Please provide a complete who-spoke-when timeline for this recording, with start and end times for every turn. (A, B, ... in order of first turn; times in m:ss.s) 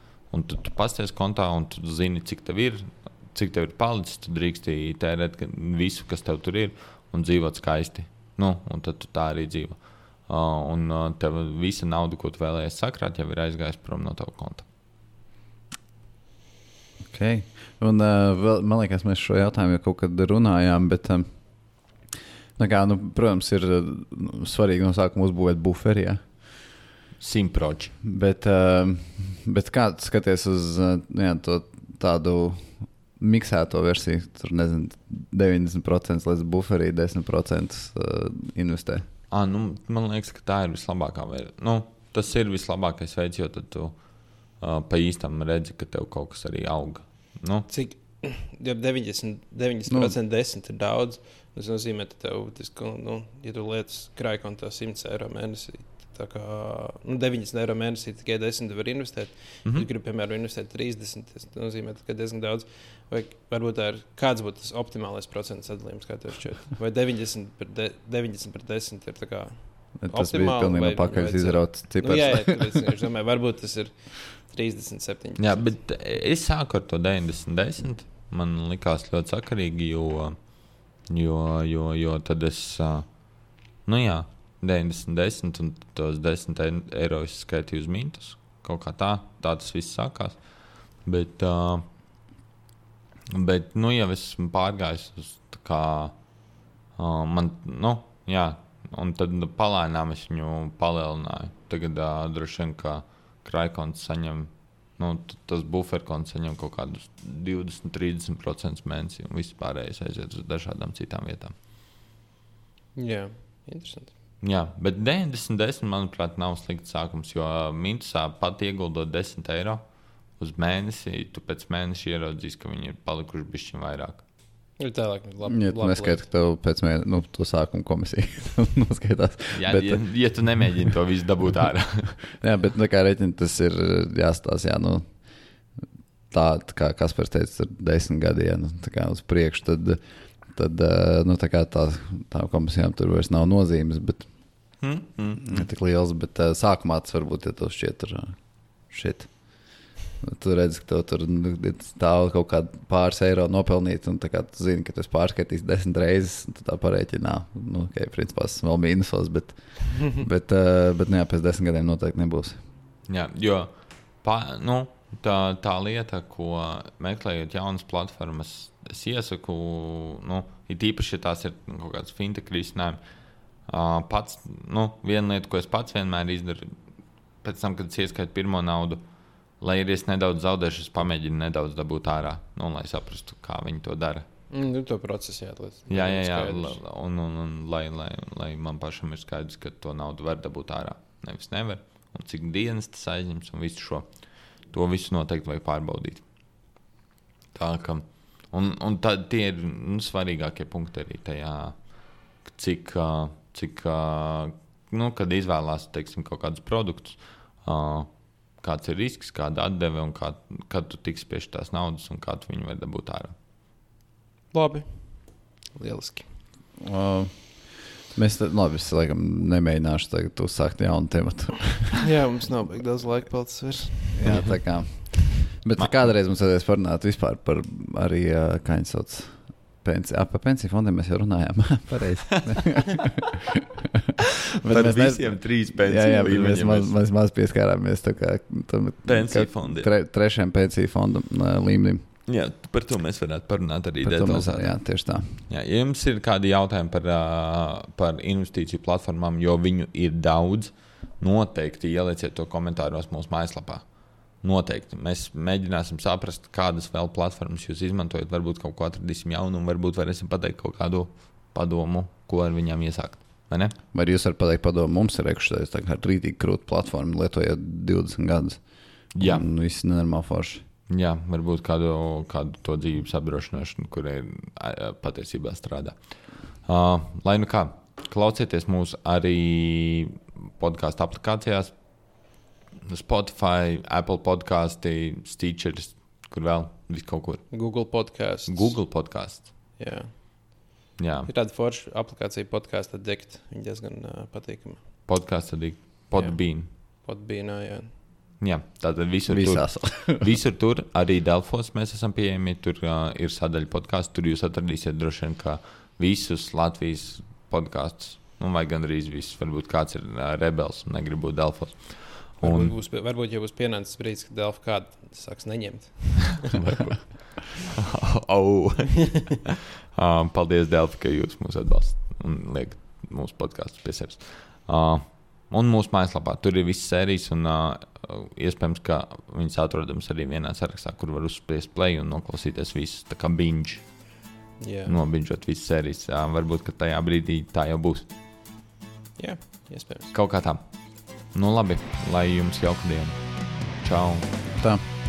0:00.2-0:14.7 A
0:17.1-0:22.0 B
0:22.6-0:26.4 B
0:27.2-0:27.9 A
0:28.0-0:39.0 B
0:39.3-0:47.7 A
0:47.7-1:15.8 C
0:49.9-0:50.2 B
1:10.0-1:12.9 B
1:15.4-1:23.3 A
1:23.8-1:31.8 A
1:33.3-1:36.3 A
1:36.9-1:51.5 A
1:52.9-1:54.1 C
1:54.4-2:04.2 A
2:04.8-2:06.3 C
2:05.5-2:10.6 B
2:09.5-2:12.2 A
2:12.3-2:15.4 B
2:16.3-2:24.3 B
2:24.8-2:25.6 A
2:25.4-2:42.6 B
2:43.1-2:53.0 A
2:53.6-2:56.8 A
2:57.4-2:59.0 A
2:59.6-3:04.2 A
3:04.5-3:06.8 C
3:05.9-3:16.2 A
3:17.5-3:33.3 A
3:34.5-3:36.4 C
3:36.8-3:42.0 B
3:42.0-3:44.5 C
3:44.1-3:53.1 B
3:54.6-4:02.0 B
3:54.6-3:56.9 A
3:59.0-3:59.9 A
4:02.3-4:23.8 A
4:04.0-4:05.4 B
4:23.9-4:30.6 B
4:29.1-4:29.4 A
4:30.9-4:49.5 A
4:47.5-4:55.1 C
4:51.0-4:51.3 A
4:55.0-4:56.7 A
4:56.1-4:58.0 C
4:58.4-5:12.8 A
4:59.3-5:00.3 B
5:12.4-5:16.8 C
5:16.5-5:34.2 A
5:34.6-5:35.0 C
5:34.8-5:38.1 A
5:39.2-5:40.1 C
5:40.1-5:44.3 A
5:44.5-5:44.8 B